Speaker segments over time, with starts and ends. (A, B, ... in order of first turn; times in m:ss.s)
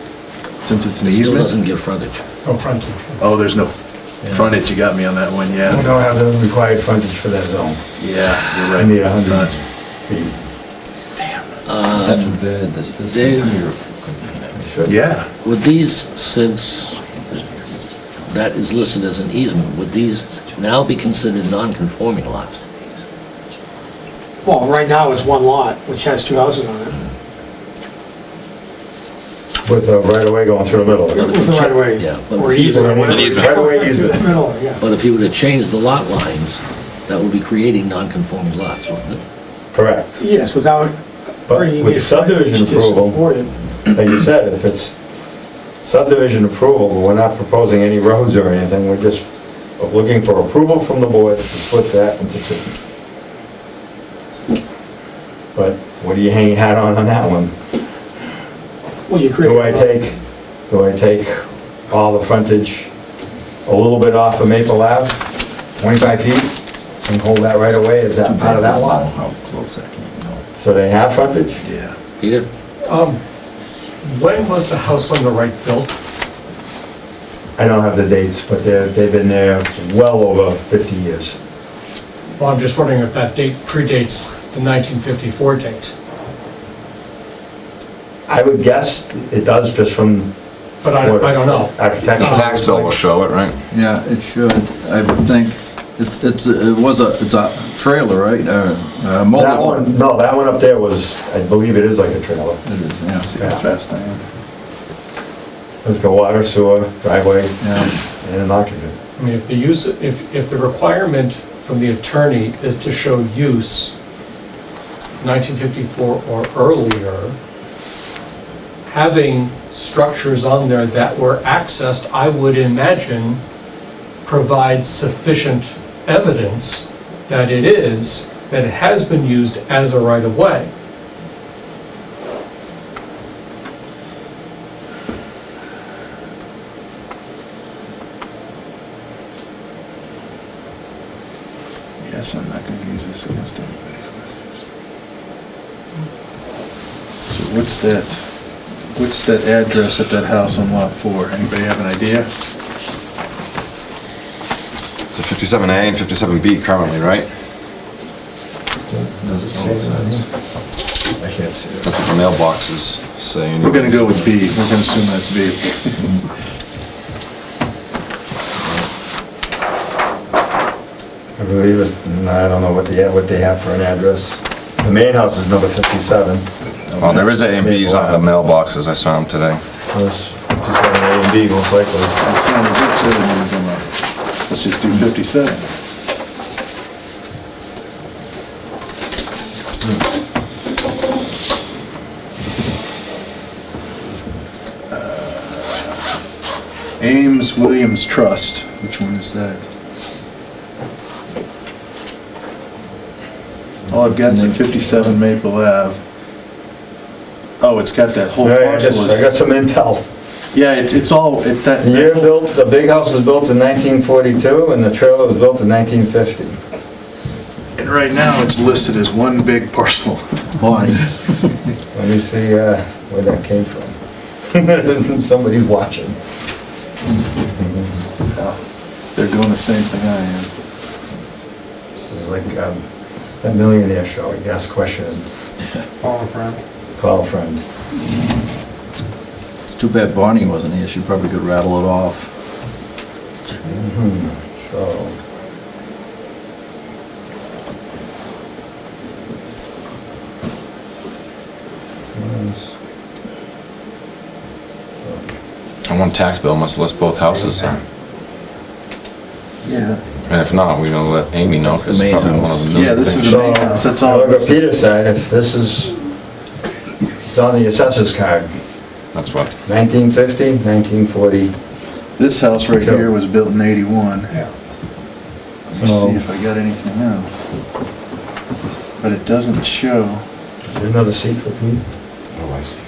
0:00.6-0:01.5 A
0:01.0-0:02.2 B
0:02.4-0:03.2 C
0:03.2-0:06.0 A
0:05.7-0:07.8 D
0:08.0-0:09.6 A
0:08.7-0:10.4 D
0:11.7-0:12.3 B
0:12.0-0:14.9 E
0:13.1-0:13.6 B
0:14.9-0:15.3 A
0:15.4-0:17.2 B
0:18.3-0:22.6 B
0:24.4-0:27.0 F
0:29.6-0:31.3 D
0:31.1-0:34.9 F
0:31.2-0:33.1 B
0:32.7-0:34.2 D
0:33.1-0:33.6 G
0:34.8-0:39.2 B
0:39.7-0:40.1 D
0:40.2-0:41.0 F
0:41.5-0:43.2 D
0:41.5-0:43.6 F
0:43.9-0:45.0 D
0:45.8-0:49.3 D
0:49.8-0:52.8 D
0:55.6-0:57.5 D
0:59.1-0:59.9 F
0:59.4-1:02.9 D
1:03.6-1:09.1 D
1:08.2-1:10.4 E
1:10.6-1:11.6 D
1:11.6-1:12.0 A
1:12.2-1:12.5 B
1:12.8-1:13.2 C
1:14.0-1:16.0 C
1:17.6-1:21.4 D
1:22.4-1:25.9 C
1:28.3-1:30.3 D
1:30.8-1:33.0 C
1:30.9-1:32.9 D
1:32.2-1:33.6 G
1:33.7-1:39.9 E
1:39.3-1:42.6 D
1:42.6-1:43.3 E
1:43.2-1:44.2 A
1:43.4-1:43.6 D
1:45.8-1:49.0 D
1:47.6-1:47.9 E
1:49.2-1:53.9 C
1:55.2-1:57.4 C
1:58.9-2:03.4 C
2:04.2-2:10.7 C
2:22.0-2:24.4 A
2:27.2-2:28.3 A
2:29.0-2:32.3 A
2:35.2-2:37.3 G
2:38.9-2:40.2 D
2:39.2-2:39.9 E
2:39.6-2:40.1 G
2:41.2-2:41.9 D
2:41.8-2:44.3 G
2:43.6-2:46.0 A
2:51.4-2:56.5 D
2:56.9-2:57.3 A
2:57.0-2:59.6 G
2:57.0-2:58.4 D
2:59.9-3:02.2 D
3:02.2-3:03.9 A
3:04.5-3:05.7 A
3:14.9-3:16.0 A
3:17.0-3:19.6 A
3:23.9-3:26.0 A
3:24.2-3:25.2 E
3:27.6-3:29.2 A
3:28.4-3:30.0 D
3:30.5-3:32.4 A
3:31.8-3:36.6 D
3:37.8-3:40.3 A
3:40.6-3:41.5 E
3:41.9-3:44.0 D
3:44.5-3:46.2 D
3:47.5-3:48.0 D
3:48.3-3:48.6 A
3:49.2-3:50.5 A
3:52.0-3:52.8 D
3:53.4-3:55.3 D
3:57.0-3:57.6 D
3:59.7-4:02.3 E
4:03.6-4:05.2 D
4:12.2-4:12.7 D
4:15.0-4:15.3 D
4:15.9-4:17.8 G
4:19.6-4:20.0 A
4:20.2-4:23.4 G
4:21.7-4:23.2 E
4:22.7-4:24.7 A
4:23.1-4:26.0 D
4:27.3-4:28.5 D
4:29.1-4:29.5 G
4:29.6-4:31.5 D
4:32.2-4:34.3 A
4:32.7-4:33.1 D
4:35.7-4:37.4 A
4:35.9-4:36.2 D
4:39.0-4:40.2 A
4:40.7-4:41.8 D
4:42.4-4:42.8 G